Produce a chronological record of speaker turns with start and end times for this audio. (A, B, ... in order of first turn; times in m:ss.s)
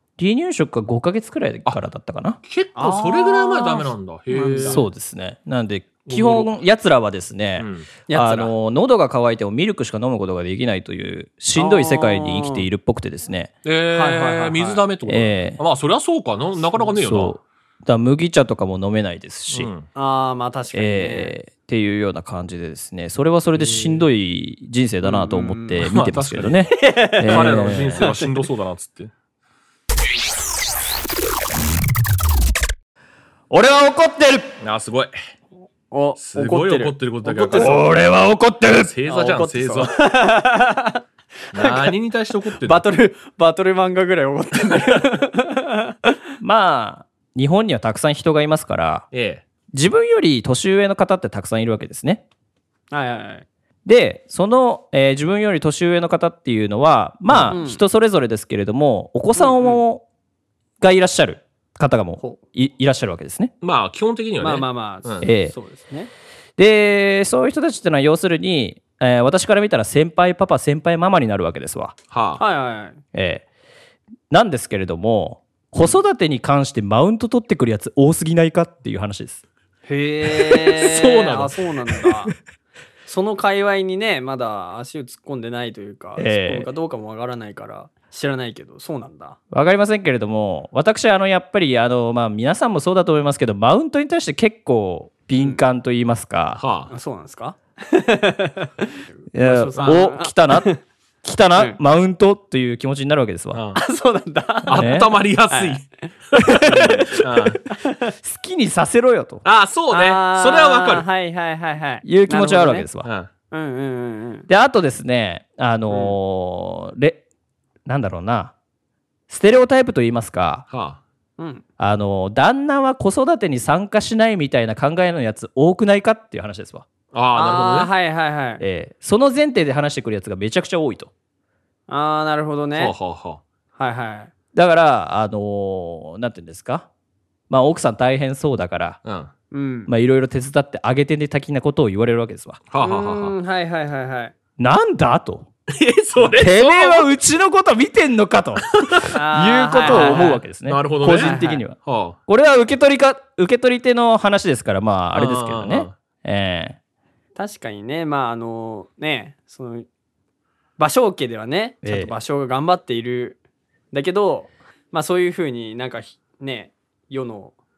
0:00.2-0:02.4 A
0:02.4-0:04.8 B
0:02.8-0:04.8 C
0:04.6-0:13.5 A
0:06.0-0:06.5 B
0:07.6-0:07.9 B
0:08.1-0:08.5 C
0:11.6-0:12.6 C
0:13.6-0:17.4 B
0:13.9-0:14.8 C
0:15.1-0:15.6 A
0:17.0-0:19.7 A
0:19.5-0:19.9 B
0:20.0-0:21.4 C
0:20.7-0:28.1 A
0:23.6-0:24.0 C
0:25.0-0:25.8 C
0:25.8-0:26.7 B
0:26.7-0:28.3 C
0:27.2-0:29.1 B
0:33.5-0:34.5 A
0:34.6-0:35.1 B
0:35.9-0:38.0 C
0:36.2-0:37.8 B
0:37.6-0:38.9 A
0:38.8-0:39.9 B
0:39.1-0:41.0 C
0:41.5-0:42.0 C
0:41.5-0:42.8 B
0:42.5-0:46.1 C
0:44.6-0:45.0 B
0:46.4-0:49.0 A
0:49.1-0:49.4 B
0:49.7-0:52.2 A
0:52.9-0:53.5 C
0:53.8-1:00.0 A
0:57.4-0:57.8 C
0:59.4-0:59.8 C
1:00.8-1:03.5 A
1:03.6-1:05.3 B
1:04.4-1:06.1 C
1:05.2-1:05.5 A
1:06.6-1:12.0 A
1:12.1-1:12.4 B
1:12.4-1:13.0 C
1:13.1-1:13.4 A
1:14.3-1:19.4 A
1:19.9-1:22.3 C
1:20.5-1:21.5 B
1:23.0-1:29.4 C
1:26.2-1:26.7 A
1:29.5-1:36.6 A
1:36.6-1:36.9 B
1:36.9-1:40.8 C
1:39.3-1:40.7 A
1:41.2-1:43.6 A
1:43.5-1:43.8 B
1:43.8-1:44.9 C
1:44.7-1:45.8 B
1:44.7-1:45.1 A
1:45.5-1:45.8 C
1:46.4-1:47.1 A
1:46.6-1:48.1 C
1:47.1-1:47.6 B
1:48.2-1:49.4 A
1:49.4-1:51.0 B
1:49.9-1:52.9 C
1:52.0-1:53.1 A
1:53.0-1:53.3 B
1:53.5-1:54.5 C
1:54.5-1:57.2 A
1:55.9-1:56.1 C
1:57.9-1:58.5 A
1:59.3-2:00.6 A
2:00.7-2:01.0 B
2:01.4-2:01.6 C
2:01.8-2:06.9 A
2:07.1-2:07.9 B
2:07.3-2:08.6 C
2:08.6-2:11.1 A
2:11.9-2:13.0 C
2:12.8-2:13.4 B
2:13.8-2:14.3 C
2:14.5-2:16.9 A
2:17.5-2:19.0 A
2:19.0-2:19.3 B
2:19.5-2:19.9 C
2:19.9-2:22.6 A
2:22.7-2:23.3 B
2:22.8-2:24.3 C
2:24.6-2:25.5 A
2:25.7-2:27.1 B
2:26.3-2:36.8 A
2:28.7-2:29.1 B
2:29.1-2:30.4 C
2:29.8-2:32.2 B
2:31.2-2:31.6 C
2:35.1-2:35.9 B
2:37.4-2:39.9 C
2:40.8-2:43.4 C
2:41.8-2:42.1 A
2:43.9-2:47.5 C